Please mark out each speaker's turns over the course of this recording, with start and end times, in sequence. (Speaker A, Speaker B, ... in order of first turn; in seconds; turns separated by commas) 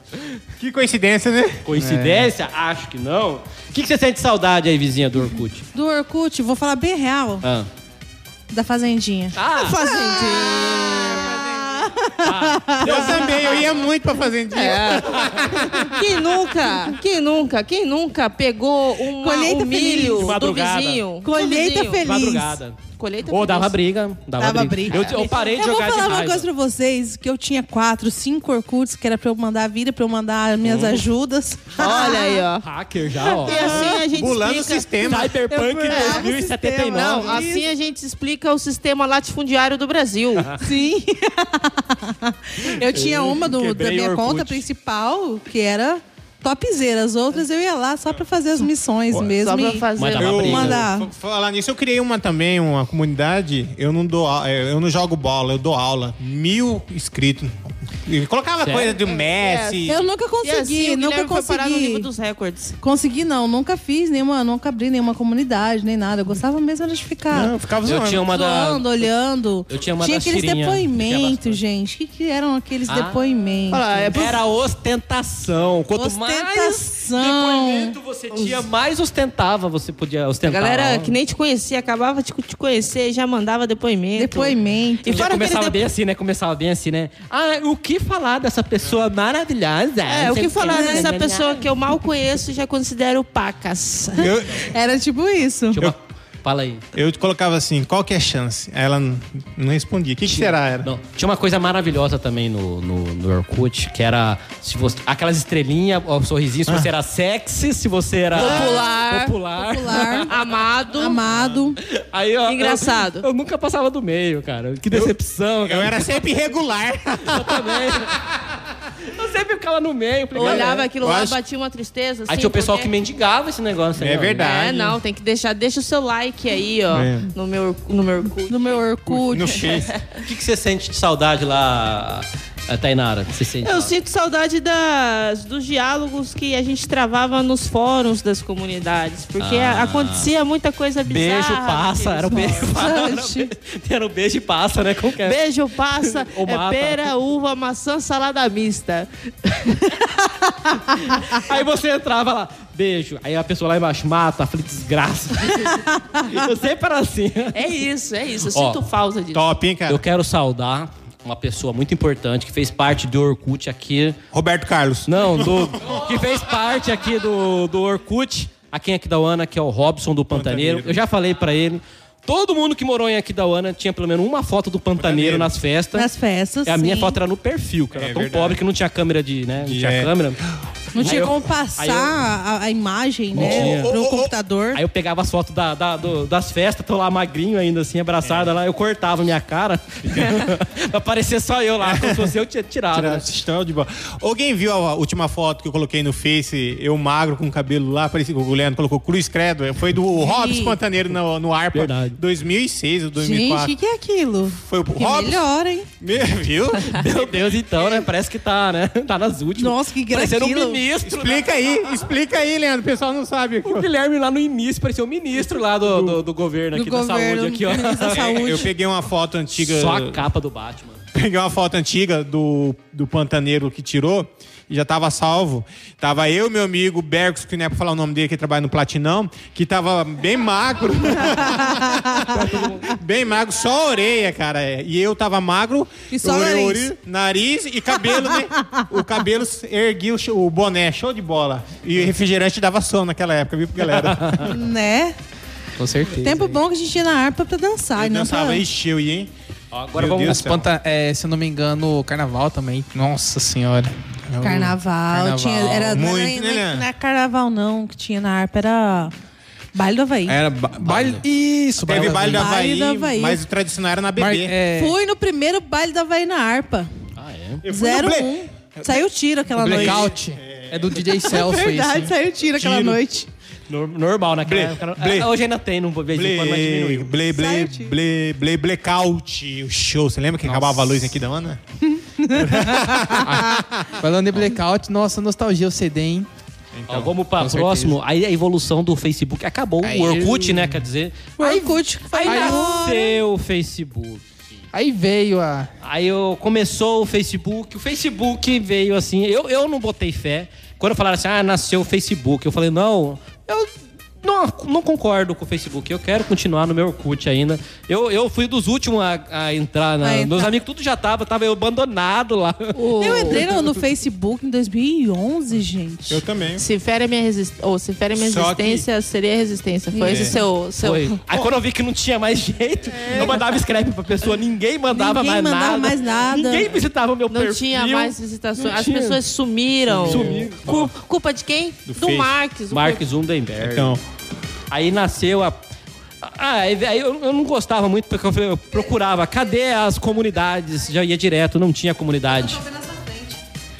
Speaker A: 0.6-1.6, Speaker B: 1.6-5.6, Speaker C: 1.7-2.3, Speaker D: 5.7-7.4, Speaker B: 7.4-7.7, Speaker D: 8.5-9.4, Speaker B: 9.3-9.8, Speaker E: 9.5-11.5, Speaker D: 10.0-13.2, Speaker A: 10.4-11.4, Speaker B: 12.2-13.8, Speaker A: 12.8-16.4, Speaker E: 13.2-13.7, Speaker E: 14.5-22.0, Speaker D: 19.2-20.3, Speaker B: 20.1-21.0, Speaker D: 21.2-22.6, Speaker B: 22.0-26.5, Speaker E: 23.0-23.7, Speaker D: 24.4-32.4, Speaker E: 25.0-25.3, Speaker B: 30.6-31.1, Speaker E: 31.8-32.6, Speaker B: 32.0-33.9, Speaker E: 33.3-35.0, Speaker A: 33.5-35.4, Speaker D: 33.6-34.0, Speaker B: 35.0-37.4, Speaker D: 35.5-37.7, Speaker E: 35.9-36.3, Speaker E: 36.9-40.5, Speaker D: 40.6-49.8, Speaker B: 42.8-44.6, Speaker E: 49.3-50.7, Speaker B: 50.0-50.8, Speaker A: 50.2-60.0, Speaker D: 50.4-51.1, Speaker B: 58.6-59.0, Speaker E: 59.0-62.8, Speaker D: 59.9-62.1, Speaker D: 62.8-67.5, Speaker A: 67.3-68.3, Speaker B: 67.8-69.1, Speaker D: 68.3-74.2, Speaker B: 69.7-71.6, Speaker B: 72.9-73.2, Speaker E: 73.7-74.4, Speaker B: 74.1-81.2, Speaker D: 75.9-78.0, Speaker E: 78.3-78.6, Speaker E: 80.5-85.8, Speaker D: 84.2-85.7, Speaker B: 85.1-91.7, Speaker E: 90.1-94.3, Speaker D: 90.7-91.1, Speaker A: 94.2-94.7, Speaker D: 94.5-95.8, Speaker B: 95.7-96.8, Speaker A: 96.9-100.9, Speaker B: 100.2-110.7, Speaker E: 108.3-109.3, Speaker A: 108.3-108.7, Speaker D: 109.6-110.3, Speaker E: 110.3-111.2, Speaker D: 111.0-111.8, Speaker A: 111.3-111.6, Speaker B: 111.8-116.2, Speaker E: 112.5-113.2, Speaker A: 114.9-118.4, Speaker B: 117.2-118.2, Speaker B: 119.0-120.9, Speaker E: 120.3-122.9, Speaker A: 120.4-121.4, Speaker B: 122.3-124.5, Speaker A: 124.0-125.0, Speaker E: 124.4-130.2, Speaker A: 126.9-127.3, Speaker D: 128.5-129.7, Speaker A: 129.3-129.9, Speaker B: 130.2-133.9, Speaker E: 133.6-142.9, Speaker B: 139.4-140.3, Speaker B: 141.1-145.4, Speaker D: 142.3-143.5, Speaker E: 145.2-150.0, Speaker B: 146.0-147.1, Speaker B: 151.2-157.6, Speaker D: 155.9-156.2, Speaker E: 157.5-159.4, Speaker B: 158.5-158.8, Speaker A: 159.3-160.0, Speaker B: 159.9-164.2, Speaker A: 164.3-166.0, Speaker B: 165.1-176.1, Speaker A: 170.3-171.0, Speaker A: 175.0-175.5, Speaker D: 175.9-177.2, Speaker B: 176.6-180.4, Speaker A: 177.9-178.6, Speaker A: 179.6-180.1, Speaker D: 180.9-184.8, Speaker B: 181.0-182.2, Speaker B: 183.3-183.9, Speaker A: 183.3-184.3, Speaker B: 184.7-193.2, Speaker A: 191.8-192.3, Speaker A: 192.9-203.7, Speaker D: 200.2-200.8, Speaker B: 201.7-202.2, Speaker D: 203.2-205.9, Speaker A: 204.5-205.5, Speaker A: 206.0-208.0, Speaker B: 206.9-211.5, Speaker D: 209.6-210.8, Speaker A: 211.0-213.9, Speaker B: 213.6-218.6, Speaker A: 215.8-216.2, Speaker D: 216.7-218.7, Speaker A: 218.1-220.2, Speaker B: 219.6-221.0, Speaker A: 221.1-244.5, Speaker D: 231.4-232.2, Speaker B: 232.3-232.9, Speaker D: 236.1-236.9, Speaker D: 238.1-238.8, Speaker B: 244.0-244.4, Speaker D: 244.4-245.2, Speaker C: 245.8-246.6, Speaker D: 246.2-248.6, Speaker A: 247.9-249.3, Speaker B: 249.7-250.6, Speaker A: 249.9-250.7, Speaker C: 250.2-253.9, Speaker A: 254.3-254.8, Speaker D: 254.4-259.1, Speaker C: 255.1-256.0, Speaker A: 255.9-256.9, Speaker D: 259.7-260.4, Speaker C: 260.3-262.5, Speaker B: 260.8-261.2, Speaker A: 261.8-264.5, Speaker D: 262.2-263.4, Speaker C: 264.2-264.9, Speaker D: 264.7-266.9, Speaker B: 267.2-267.6, Speaker A: 267.6-269.0, Speaker D: 267.7-270.1, Speaker C: 269.6-272.1, Speaker A: 269.6-271.3, Speaker D: 271.2-273.3, Speaker A: 272.6-273.0, Speaker B: 273.7-277.1, Speaker A: 274.4-275.3, Speaker A: 276.1-281.6, Speaker D: 277.3-277.9, Speaker C: 280.4-281.0, Speaker D: 281.9-283.2, Speaker A: 282.3-283.9, Speaker C: 283.2-286.3, Speaker A: 286.7-287.2, Speaker B: 286.9-294.4, Speaker C: 287.4-288.0, Speaker C: 289.8-290.7, Speaker D: 291.4-293.2, Speaker C: 292.2-292.8, Speaker C: 294.7-295.7, Speaker B: 295.8-303.7, Speaker B: 304.2-313.6, Speaker D: 310.0-310.5, Speaker E: 312.7-313.5, Speaker D: 313.0-316.2, Speaker A: 316.1-316.6, Speaker E: 316.6-321.1, Speaker A: 318.1-318.9, Speaker D: 319.9-320.3, Speaker A: 320.0-320.4, Speaker B: 320.8-329.2, Speaker E: 323.0-323.4, Speaker D: 324.9-326.7, Speaker E: 327.3-333.0, Speaker B: 329.9-330.9, Speaker A: 329.9-330.9, Speaker A: 331.9-332.4, Speaker B: 332.7-334.0, Speaker A: 333.6-334.0, Speaker B: 334.7-335.6, Speaker B: 336.2-342.6, Speaker D: 342.3-343.4